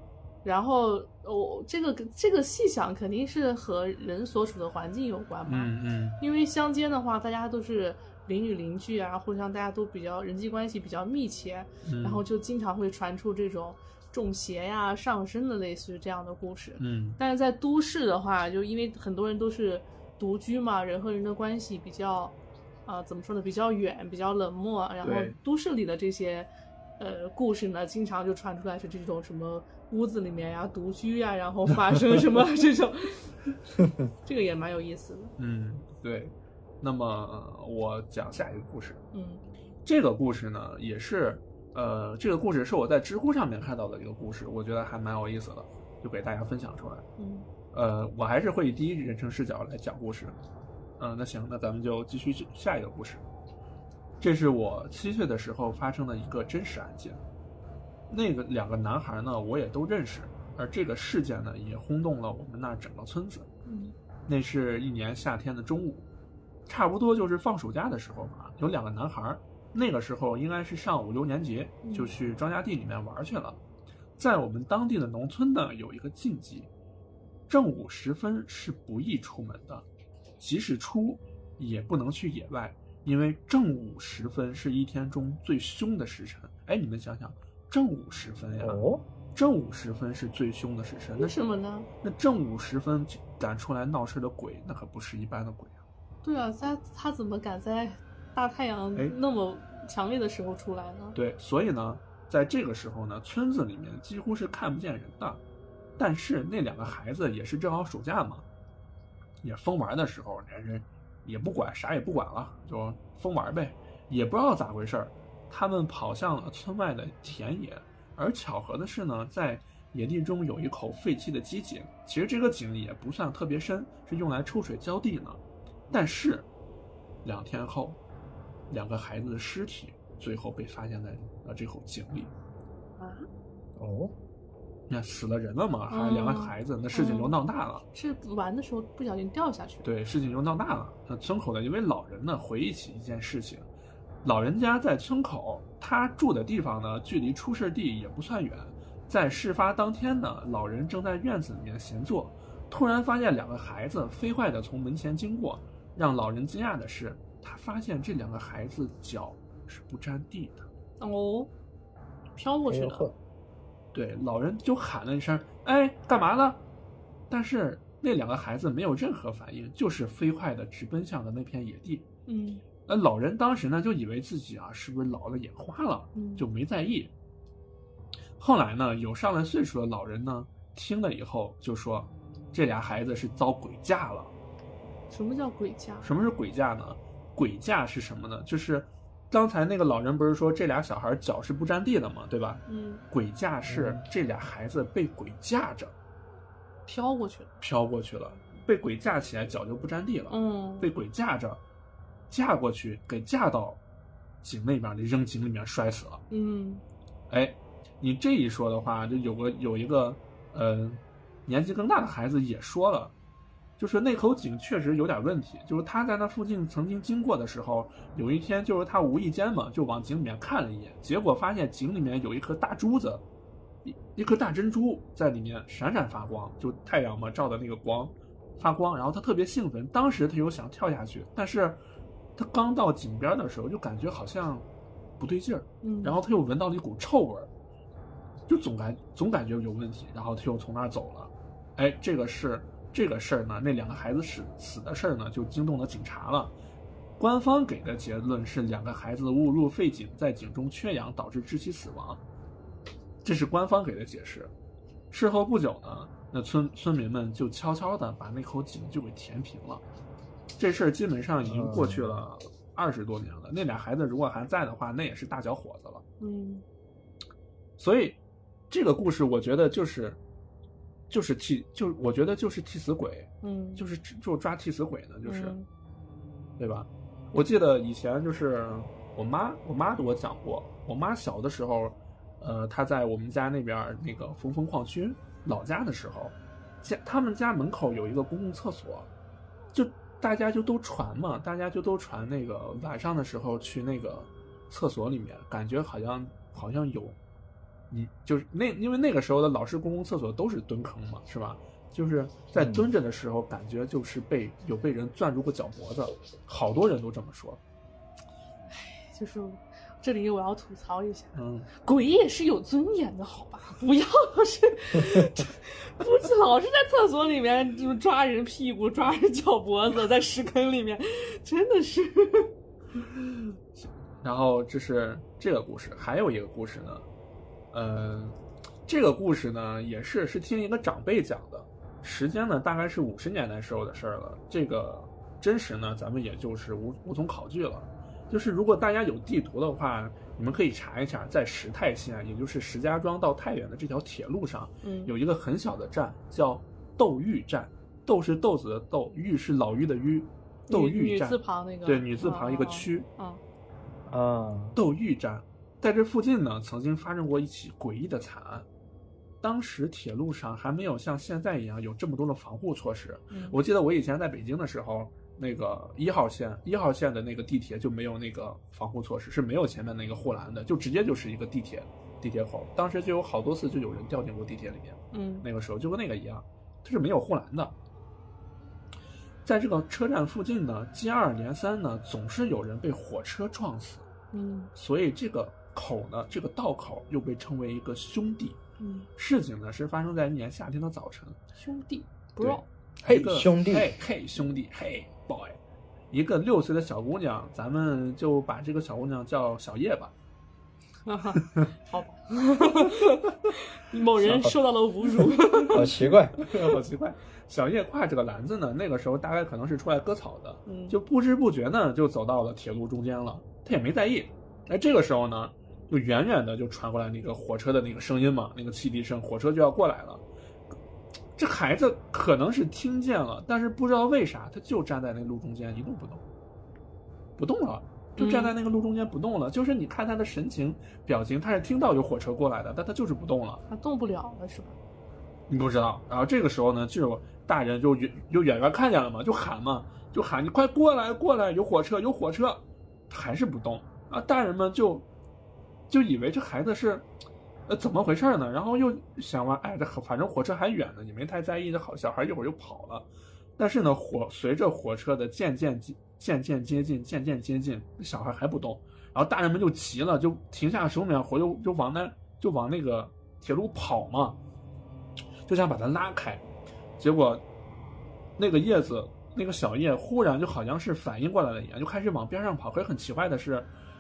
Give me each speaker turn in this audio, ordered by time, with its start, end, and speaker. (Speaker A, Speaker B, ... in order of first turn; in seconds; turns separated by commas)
Speaker A: 0.4-33.4, Speaker B: 5.5-6.2, Speaker B: 11.8-12.2, Speaker B: 16.8-17.2, Speaker B: 25.0-25.4, Speaker B: 31.9-32.2, Speaker A: 34.2-35.3, Speaker B: 35.4-39.0, Speaker A: 39.1-39.4, Speaker B: 39.9-47.0, Speaker A: 47.2-47.5, Speaker B: 47.7-50.4, Speaker B: 51.0-53.2, Speaker B: 54.2-57.2, Speaker B: 58.1-63.5, Speaker A: 63.7-63.9, Speaker B: 64.3-66.1, Speaker B: 66.7-73.6, Speaker A: 71.8-72.1, Speaker B: 74.2-76.7, Speaker B: 77.5-79.8, Speaker B: 80.4-88.8, Speaker C: 88.6-89.0, Speaker B: 89.3-91.3, Speaker A: 91.2-91.9, Speaker B: 92.0-95.8, Speaker A: 96.2-101.2, Speaker B: 101.2-105.4, Speaker B: 106.0-108.5, Speaker B: 109.4-126.5, Speaker B: 127.2-128.0, Speaker B: 128.7-132.3, Speaker A: 133.0-133.2, Speaker C: 133.8-134.1, Speaker B: 134.9-137.8, Speaker A: 135.9-137.4, Speaker A: 137.9-139.8, Speaker B: 139.8-143.7, Speaker B: 144.2-160.7, Speaker A: 161.0-161.5, Speaker A: 162.3-163.1, Speaker C: 162.7-163.1, Speaker B: 163.9-166.6, Speaker B: 167.3-172.1, Speaker A: 172.3-172.6, Speaker B: 172.9-177.1, Speaker A: 176.2-176.5, Speaker B: 178.4-184.3, Speaker A: 185.1-186.1, Speaker B: 186.0-195.9, Speaker A: 192.7-193.0, Speaker C: 193.7-194.0, Speaker A: 196.9-197.5, Speaker B: 197.6-201.6, Speaker A: 200.3-200.9, Speaker B: 202.3-203.8, Speaker B: 204.4-206.2, Speaker A: 206.3-206.8, Speaker B: 207.3-213.1, Speaker B: 213.8-223.2, Speaker B: 223.8-231.8, Speaker B: 232.4-234.7, Speaker B: 235.2-237.5, Speaker A: 235.8-236.2, Speaker B: 238.5-246.5, Speaker B: 247.2-252.2, Speaker B: 253.2-254.5, Speaker B: 255.1-259.8, Speaker B: 260.6-266.0, Speaker C: 261.4-262.1, Speaker A: 266.2-266.6, Speaker B: 267.8-270.2, Speaker B: 271.1-275.6, Speaker A: 273.4-273.8, Speaker A: 275.2-275.7, Speaker B: 276.6-289.1, Speaker B: 289.7-297.2, Speaker B: 297.9-307.6, Speaker C: 302.6-302.9, Speaker A: 308.7-322.5, Speaker B: 311.4-311.7, Speaker B: 323.8-327.1, Speaker B: 327.7-353.1, Speaker A: 344.8-345.1, Speaker A: 350.7-353.4, Speaker C: 354.1-354.8, Speaker B: 354.8-358.7, Speaker B: 359.4-377.8, Speaker A: 363.3-363.6, Speaker A: 375.1-375.4, Speaker B: 379.4-384.1, Speaker A: 384.3-384.7, Speaker B: 384.8-388.6, Speaker A: 388.8-389.1, Speaker B: 389.2-391.4, Speaker A: 391.6-392.6, Speaker B: 392.4-395.6, Speaker C: 393.1-393.9, Speaker B: 396.1-400.1, Speaker A: 401.1-405.9, Speaker B: 401.4-401.7, Speaker C: 404.2-404.6, Speaker B: 405.5-420.2, Speaker C: 405.7-406.4, Speaker A: 410.7-411.0, Speaker B: 421.4-426.2, Speaker B: 427.4-433.6, Speaker A: 428.2-428.5, Speaker A: 433.7-434.8, Speaker B: 435.5-445.1, Speaker B: 445.9-447.1, Speaker B: 447.7-464.4, Speaker B: 465.5-466.4, Speaker B: 467.0-467.4, Speaker B: 468.4-473.7